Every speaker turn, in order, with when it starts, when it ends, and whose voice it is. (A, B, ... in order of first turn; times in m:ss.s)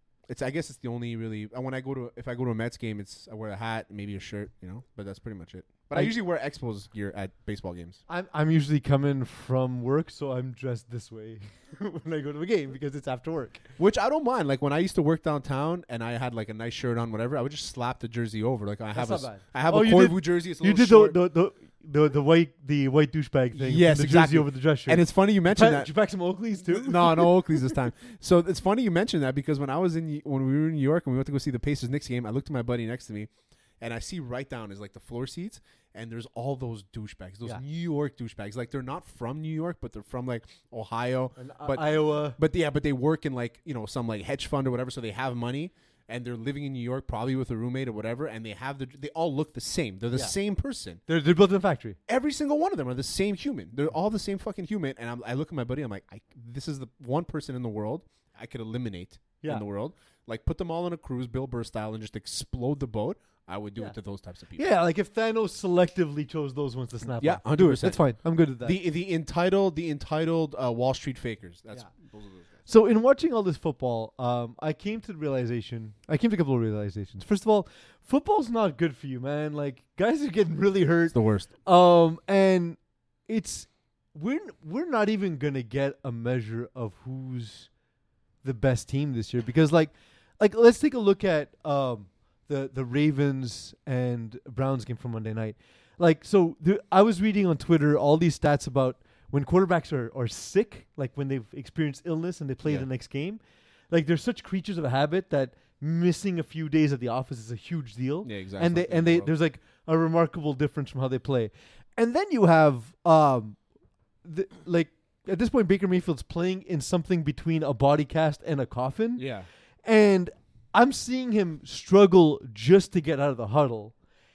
0:00.3-0:08.0 A
0:08.1-0:13.6 B
0:13.8-0:21.2 A
0:18.9-0:27.7 B
0:23.5-0:25.9 A
0:26.6-0:51.0 A
0:41.4-0:42.4 B
0:51.1-0:52.0 B
0:52.1-1:04.7 A
1:04.6-1:08.8 B
1:07.2-1:08.0 A
1:08.6-1:12.5 A
1:12.6-1:27.7 B
1:21.1-1:21.5 A
1:28.4-1:53.6 B
1:48.2-1:49.3 A
1:54.2-1:59.3 B
1:59.2-1:59.5 A
1:59.8-2:03.9 B